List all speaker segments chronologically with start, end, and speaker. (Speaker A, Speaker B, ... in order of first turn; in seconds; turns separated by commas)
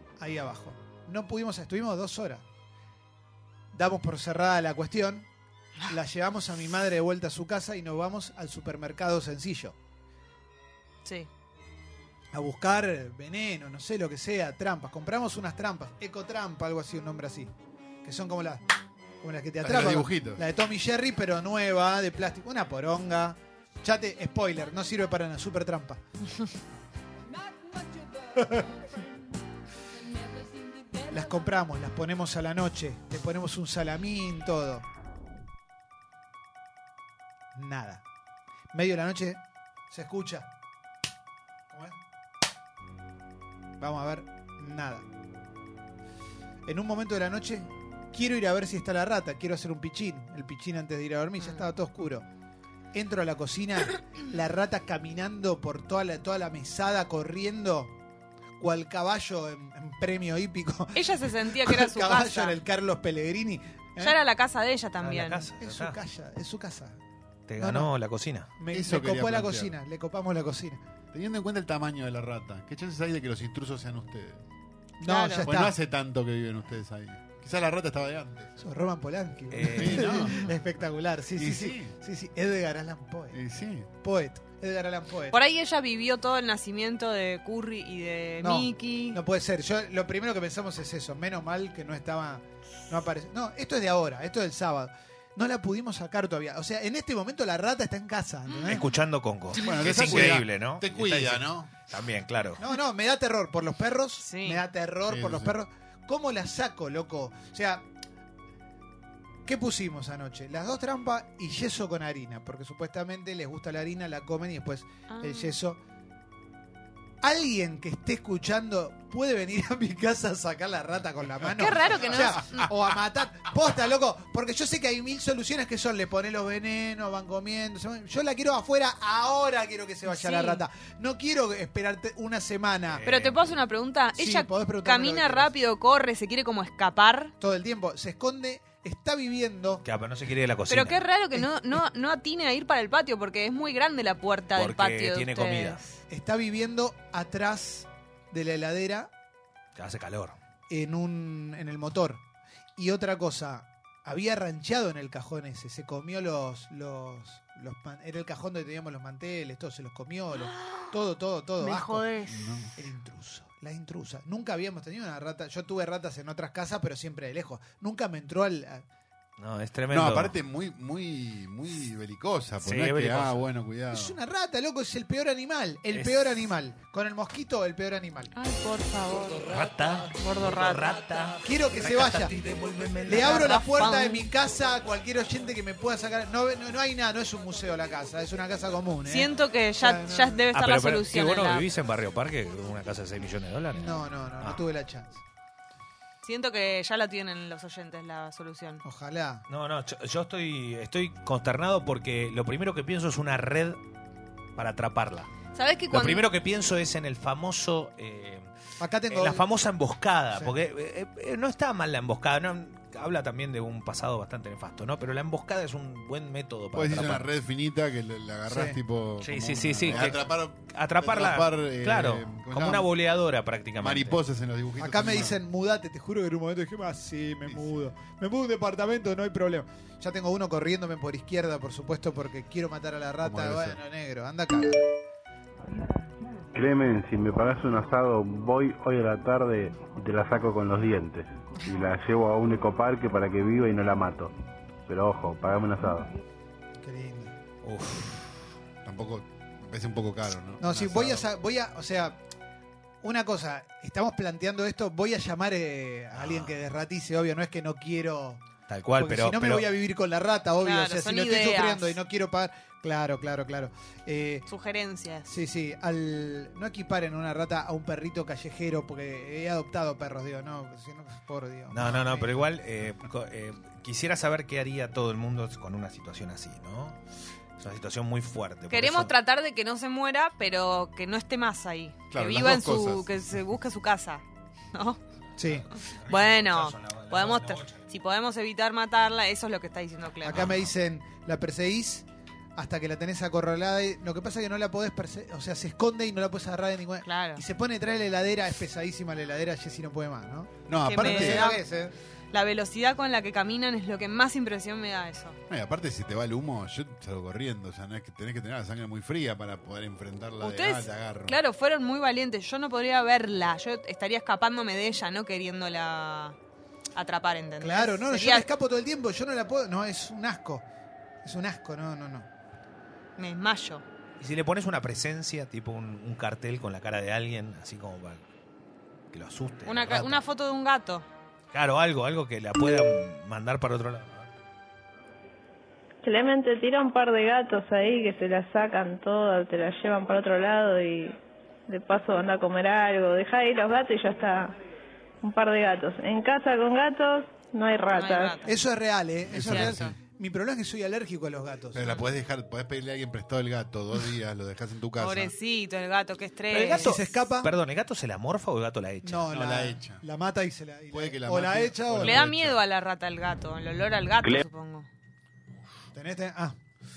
Speaker A: 0.2-2.4, Speaker A: 3.7-5.3, Speaker A: 5.9-9.8, Speaker A: 12.3-17.5, Speaker A: 18.0-18.6, Speaker A: 19.2-26.0, Speaker B: 19.6-20.4, Speaker A: 28.4-28.7, Speaker A: 31.1-34.9, Speaker A: 37.5-38.0, Speaker A: 38.7-40.5, Speaker A: 41.7-42.0, Speaker A: 43.8-45.1, Speaker A: 46.7-52.2, Speaker C: 51.4-51.6, Speaker A: 52.9-57.9, Speaker A: 58.6-64.2, Speaker C: 61.0-62.6, Speaker C: 64.0-65.5, Speaker D: 65.0-66.0, Speaker A: 65.6-67.0, Speaker D: 67.5-68.5, Speaker A: 67.6-67.9, Speaker A: 68.6-70.8, Speaker B: 68.7-69.8, Speaker B: 71.1-74.4, Speaker A: 75.0-75.8, Speaker C: 75.0-75.5, Speaker B: 75.4-78.6, Speaker A: 78.6-83.4, Speaker D: 79.5-80.4, Speaker B: 79.7-80.7, Speaker B: 81.3-82.0, Speaker B: 83.3-83.9, Speaker A: 84.0-85.4, Speaker C: 85.3-89.2, Speaker A: 88.4-98.8, Speaker D: 98.6-102.6, Speaker B: 99.5-101.7, Speaker A: 102.6-107.9, Speaker C: 104.2-104.6, Speaker B: 105.1-105.6, Speaker A: 109.5-115.8, Speaker C: 115.1-115.5, Speaker A: 117.2-133.0, Speaker C: 121.6-122.7, Speaker C: 130.1-130.6, Speaker D: 132.9-133.4, Speaker C: 133.1-137.3, Speaker A: 134.2-135.5, Speaker A: 137.4-139.8, Speaker D: 139.8-141.0, Speaker C: 140.7-146.0, Speaker A: 141.3-141.8, Speaker D: 144.6-145.8, Speaker A: 146.1-149.1, Speaker D: 149.8-150.4, Speaker A: 150.7-152.2, Speaker A: 152.8-162.2, Speaker C: 161.8-162.3, Speaker B: 162.2-162.7, Speaker A: 162.8-168.8, Speaker D: 169.4-170.3, Speaker B: 169.9-174.2, Speaker D: 172.6-173.4, Speaker A: 173.9-178.3, Speaker D: 175.9-176.5, Speaker C: 178.3-179.5, Speaker D: 179.5-183.5, Speaker C: 180.2-180.9, Speaker A: 181.4-182.3, Speaker A: 183.1-190.5, Speaker C: 183.1-184.2, Speaker C: 189.1-191.7, Speaker D: 190.5-194.6, Speaker A: 193.8-195.2, Speaker C: 196.2-198.8, Speaker A: 198.8-199.4, Speaker D: 199.5-203.8, Speaker D: 204.6-205.3, Speaker C: 205.6-206.2, Speaker D: 205.9-208.5, Speaker A: 208.8-209.5, Speaker D: 209.1-217.3, Speaker A: 210.3-210.6, Speaker B: 216.7-222.9, Speaker A: 218.5-218.8, Speaker D: 219.2-224.2, Speaker B: 223.8-225.4, Speaker A: 224.8-234.8, Speaker B: 233.2-233.8, Speaker E: 236.5-244.3, Speaker E: 244.9-246.1, Speaker A: 246.8-247.3, Speaker D: 247.6-248.4, Speaker B: 248.8-251.3, Speaker A: 250.6-252.2, Speaker A: 253.0-258.4, Speaker D: 256.1-256.6, Speaker D: 258.7-259.7, Speaker A: 259.0-264.5, Speaker C: 260.6-262.0, Speaker C: 264.5-265.3, Speaker A: 265.3-272.3, Speaker D: 271.7-277.0, Speaker D: 277.6-279.1, Speaker C: 278.7-284.2, Speaker B: 282.1-283.4, Speaker C: 284.7-285.0, Speaker A: 285.4-285.7, Speaker D: 285.6-287.8, Speaker C: 286.1-290.5, Speaker A: 290.2-301.9, Speaker C: 297.1-297.4, Speaker B: 300.7-301.5, Speaker C: 301.0-301.6, Speaker C: 302.3-305.4, Speaker B: 305.5-311.4, Speaker C: 310.4-316.4, Speaker C: 316.9-318.5, Speaker A: 317.6-320.6, Speaker A: 321.2-322.3, Speaker C: 323.2-323.8, Speaker D: 324.2-328.2, Speaker D: 329.1-330.2, Speaker C: 329.7-331.1, Speaker D: 331.5-334.3, Speaker F: 336.0-344.5, Speaker F: 345.2-348.4, Speaker C: 347.9-348.6, Speaker A: 348.4-351.9, Speaker B: 349.3-350.0, Speaker C: 349.4-349.9, Speaker B: 351.7-355.3, Speaker C: 355.0-357.0, Speaker D: 356.5-359.3, Speaker A: 356.7-357.5, Speaker A: 359.0-362.3, Speaker B: 359.3-360.0, Speaker B: 360.9-362.6, Speaker C: 362.0-364.9, Speaker A: 365.9-366.6